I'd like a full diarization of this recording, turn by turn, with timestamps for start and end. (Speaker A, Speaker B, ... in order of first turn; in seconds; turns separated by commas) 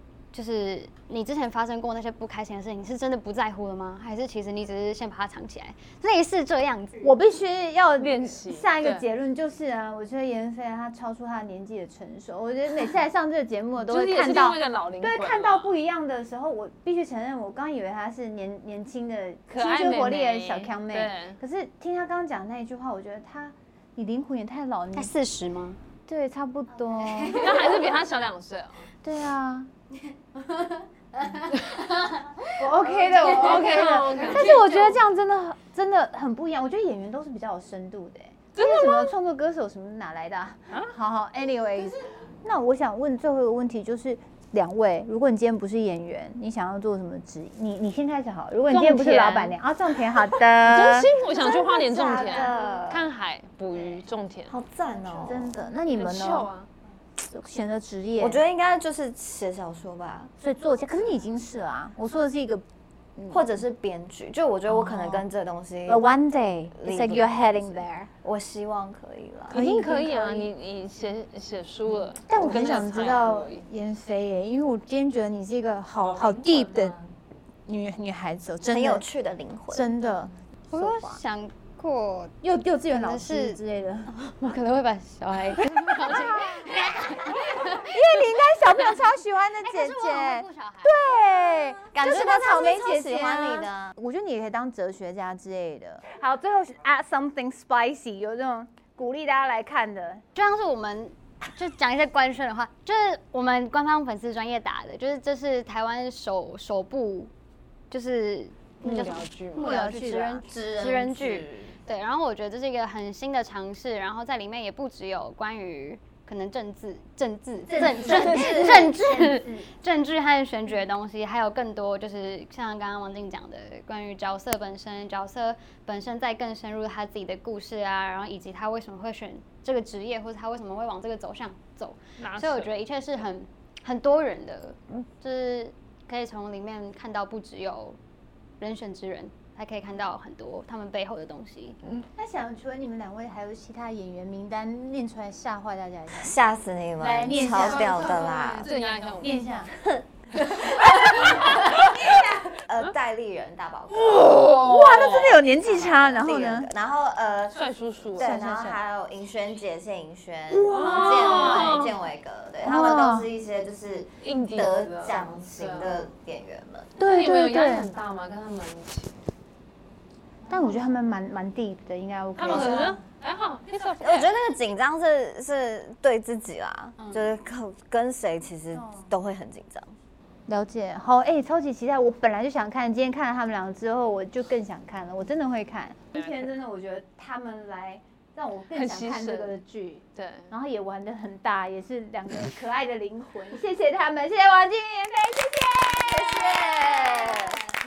Speaker A: 0.3-7.1, Speaker B: 7.0-25.1, Speaker C: 8.0-9.0, Speaker C: 13.8-15.7, Speaker C: 19.5-21.4, Speaker A: 24.9-25.8, Speaker B: 26.1-27.7, Speaker A: 27.0-27.7, Speaker C: 27.3-28.9, Speaker B: 29.0-29.7, Speaker A: 30.3-32.6, Speaker B: 32.6-51.1, Speaker C: 33.0-35.0, Speaker A: 34.1-34.4, Speaker C: 38.5-39.1, Speaker C: 48.7-49.6, Speaker C: 50.6-54.5, Speaker D: 51.3-53.1, Speaker D: 53.8-55.6, Speaker B: 55.0-56.5, Speaker C: 55.9-56.7, Speaker B: 57.2-58.4, Speaker D: 58.2-60.3, Speaker B: 60.4-62.6, Speaker B: 63.1-63.4, Speaker D: 63.3-66.0, Speaker B: 64.7-65.2, Speaker B: 65.8-68.1, Speaker D: 66.8-69.6, Speaker C: 69.5-73.7, Speaker B: 69.5-70.5, Speaker B: 72.3-77.0, Speaker C: 76.2-77.0, Speaker B: 77.7-79.0, Speaker D: 78.6-79.9, Speaker B: 79.7-81.2, Speaker A: 80.7-82.3, Speaker B: 82.4-84.1, Speaker A: 82.9-88.0, Speaker B: 85.9-100.2, Speaker A: 89.6-91.4, Speaker D: 91.9-94.0, Speaker A: 100.3-107.3, Speaker A: 107.9-138.0, Speaker C: 108.8-109.7, Speaker B: 109.6-110.5, Speaker D: 110.3-111.8, Speaker B: 117.7-119.7, Speaker D: 117.8-118.8, Speaker C: 132.2-132.7, Speaker A: 138.6-141.8, Speaker B: 141.9-146.3, Speaker D: 146.1-148.7, Speaker B: 147.0-148.2, Speaker C: 147.3-149.4, Speaker B: 149.2-149.7, Speaker B: 150.3-152.6, Speaker C: 151.4-151.7, Speaker D: 152.7-154.5, Speaker C: 153.9-155.4, Speaker B: 154.2-156.7, Speaker D: 155.3-157.6, Speaker C: 157.5-158.4, Speaker D: 158.1-167.0, Speaker B: 158.2-158.8, Speaker B: 160.5-161.9, Speaker C: 160.7-161.9, Speaker B: 162.6-163.3, Speaker C: 164.2-166.1, Speaker B: 167.0-167.9, Speaker C: 167.0-169.2, Speaker B: 170.5-173.0, Speaker C: 172.3-174.3, Speaker D: 172.5-172.8, Speaker D: 174.0-179.9, Speaker A: 177.0-177.3, Speaker B: 178.7-179.1, Speaker B: 180.5-197.6, Speaker C: 186.1-186.4, Speaker C: 188.7-189.5, Speaker C: 190.2-190.5, Speaker D: 197.1-197.3